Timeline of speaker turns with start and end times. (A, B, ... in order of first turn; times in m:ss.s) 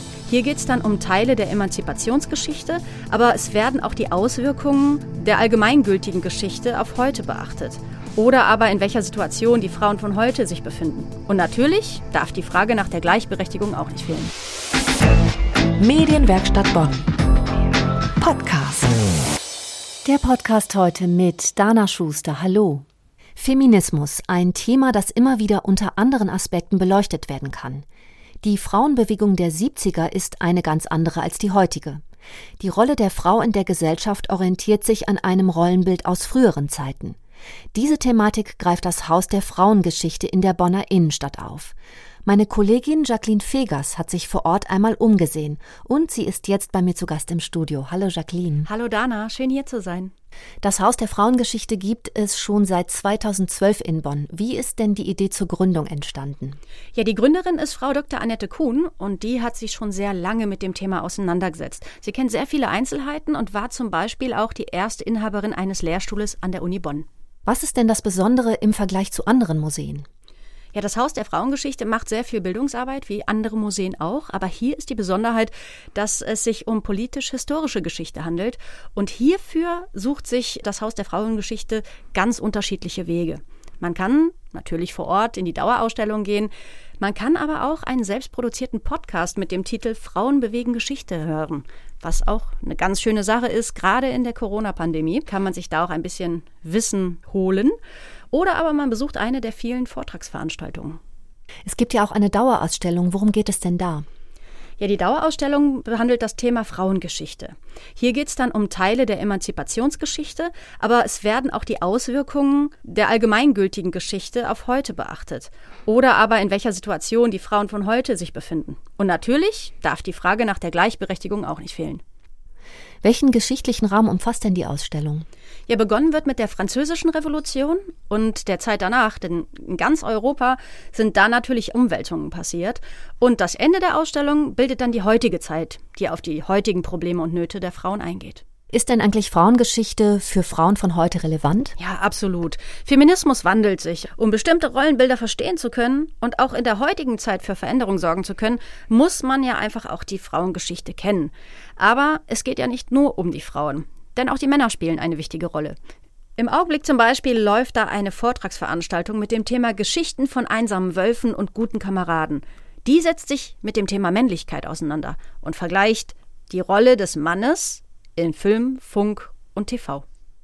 0:00.3-0:14.3 A
0:15.8-0:17.0 B
0:18.2-0:18.9 B
0:20.0-0:22.8 B
0:23.4-0:27.8 B
0:28.4-0:32.0 B
0:32.6-0:37.2 B
0:37.7-0:41.7 B
0:42.2-0:48.7 B
0:48.7-0:50.1 A
0:50.6-0:56.6 B
0:56.9-1:07.1 A
1:07.4-1:10.0 B
1:10.7-1:37.8 A
1:38.3-1:41.0 A
1:41.6-1:44.0 B
1:44.8-2:02.0 A
2:03.0-2:05.2 B
2:05.7-2:18.4 A
2:18.7-2:21.8 B
2:21.8-2:35.8 A
2:36.4-2:50.0 A